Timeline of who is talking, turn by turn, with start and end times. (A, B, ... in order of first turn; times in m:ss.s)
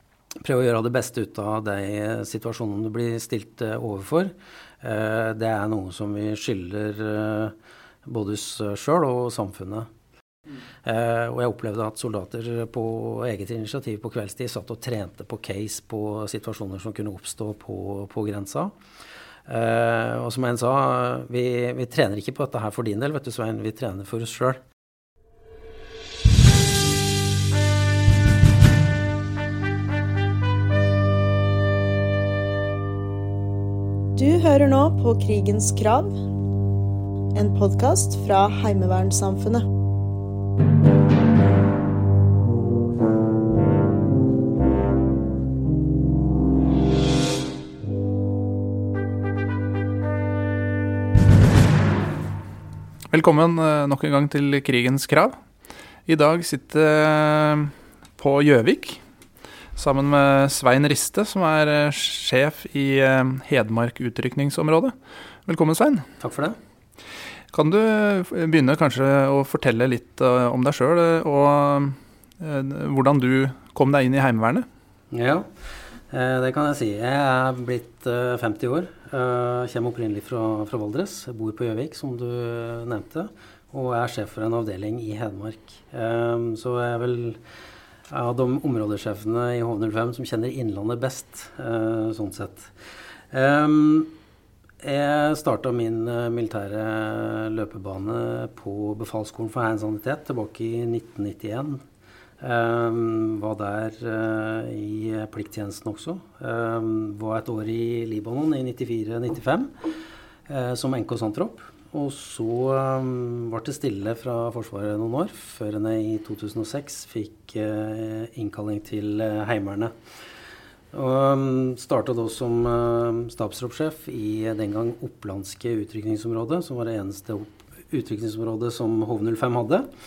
0:00.4-0:09.9 A
0:10.8-0:18.7 A
0:19.4-0:24.6 A
0:34.2-0:36.2 B
0:37.3-0:39.7 B
0:53.1-0:55.4 C
0:56.0-0:59.0 C
0:59.7-1:04.9 C
1:05.4-1:06.1 C
1:06.2-1:06.6 A
1:07.5-1:14.7 C
1:15.1-1:15.5 A
1:16.1-1:27.4 A
1:28.1-1:32.7 A
1:33.3-1:34.1 A
1:34.8-1:41.8 A
1:42.4-1:49.7 A
1:50.5-1:59.9 A
2:00.9-2:09.9 A